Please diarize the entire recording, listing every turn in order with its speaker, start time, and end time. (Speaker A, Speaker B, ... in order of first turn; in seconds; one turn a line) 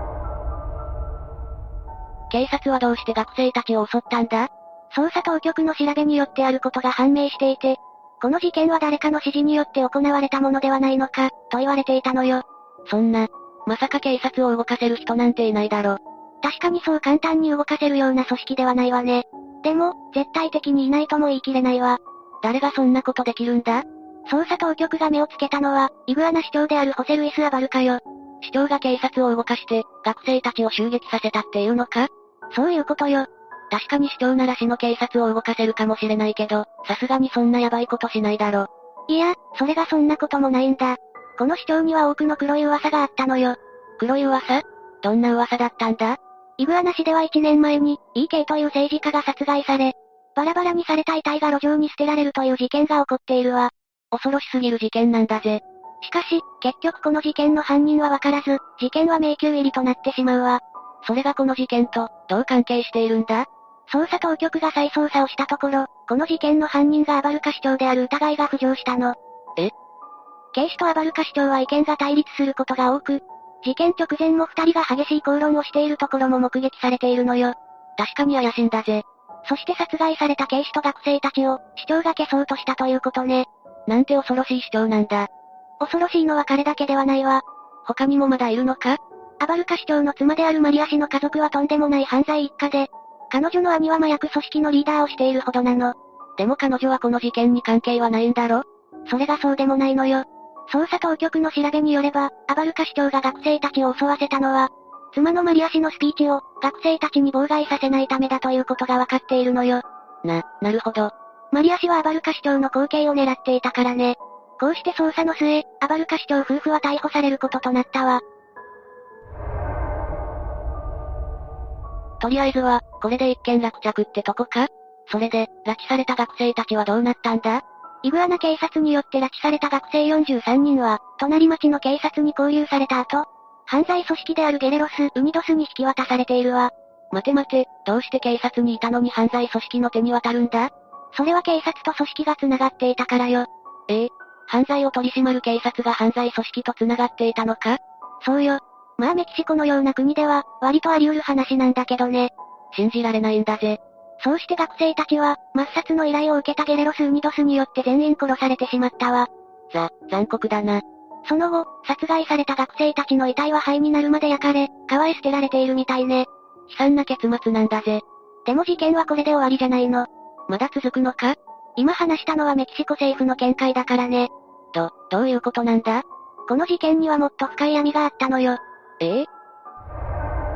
Speaker A: 2.3-69.7
Speaker A: 70.5-85.3
Speaker A: 85.8-118.2
Speaker A: 122.2-179.3